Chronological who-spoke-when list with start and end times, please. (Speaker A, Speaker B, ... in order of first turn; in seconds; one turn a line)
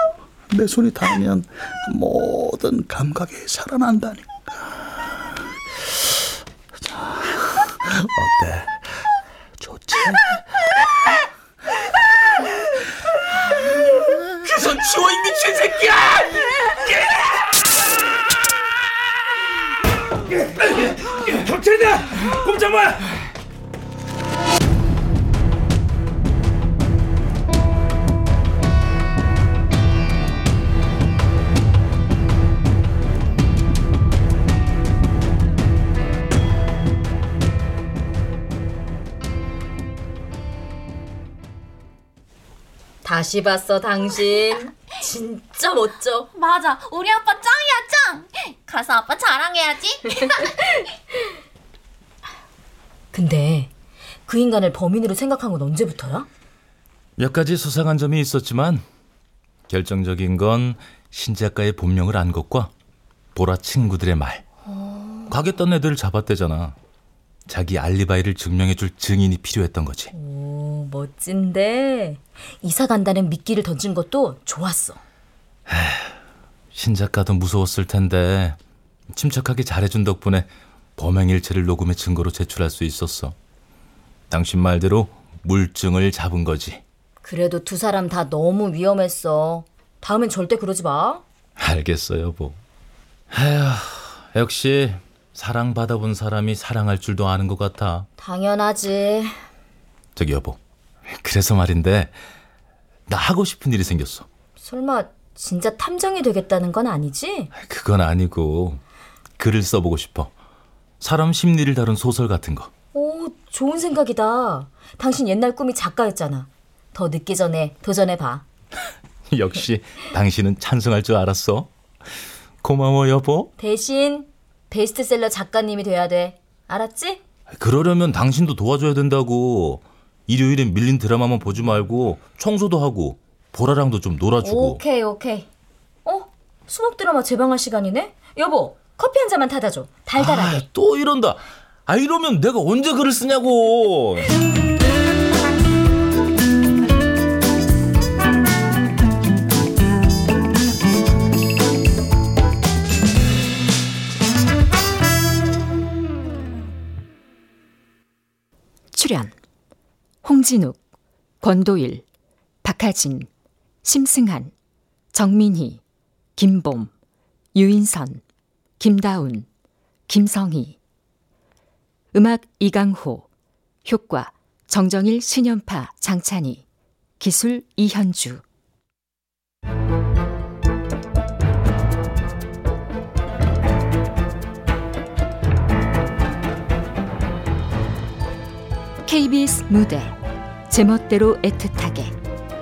Speaker A: 0.5-5.4
Speaker A: 6.8-10.5
Speaker B: 14.4-17.7
Speaker B: 20.3-23.2
Speaker C: 43.0-46.3
Speaker D: 46.4-50.6
Speaker C: 53.1-53.7
Speaker C: 54.3-56.3
Speaker B: 57.2-58.8
Speaker B: 59.7-62.7
Speaker B: 63.4-64.4
Speaker C: 64.7-65.3
Speaker B: 65.3-66.8
Speaker B: 67.5-70.1
Speaker C: 70.1-75.0
Speaker B: 75.7-76.2
Speaker B: 76.7-78.6
Speaker B: 79.1-83.3
Speaker B: 84.3-86.8
Speaker C: 87.2-91.2
Speaker B: 91.6-92.6
Speaker B: 93.3-98.1
Speaker C: 98.2-99.4
Speaker B: 100.2-102.1
Speaker B: 103.1-104.3
Speaker C: 104.6-107.5
Speaker B: 107.5-108.8
Speaker B: 109.4-110.3
Speaker B: 111.0-112.7
Speaker C: 112.9-118.4
Speaker B: 119.3-121.7
Speaker B: 122.6-123.5
Speaker C: 123.6-127.2
Speaker B: 127.5-134.8
Speaker C: 134.4-135.5
Speaker C: 136.1-140.7
Speaker B: 140.2-144.4
Speaker E: 158.9-159.3
Speaker E: 160.2-160.8
Speaker E: 161.4-162.1
Speaker E: 162.6-163.3
Speaker E: 163.8-164.5
Speaker E: 165.1-165.8
Speaker E: 166.4-166.9
Speaker E: 167.5-168.2
Speaker E: 168.8-169.5
Speaker E: 170.1-170.8
Speaker E: 172.1-173.3
Speaker E: 173.8-176.6
Speaker E: 177.2-178.4
Speaker E: 189.1-190.2
Speaker E: 190.7-192.1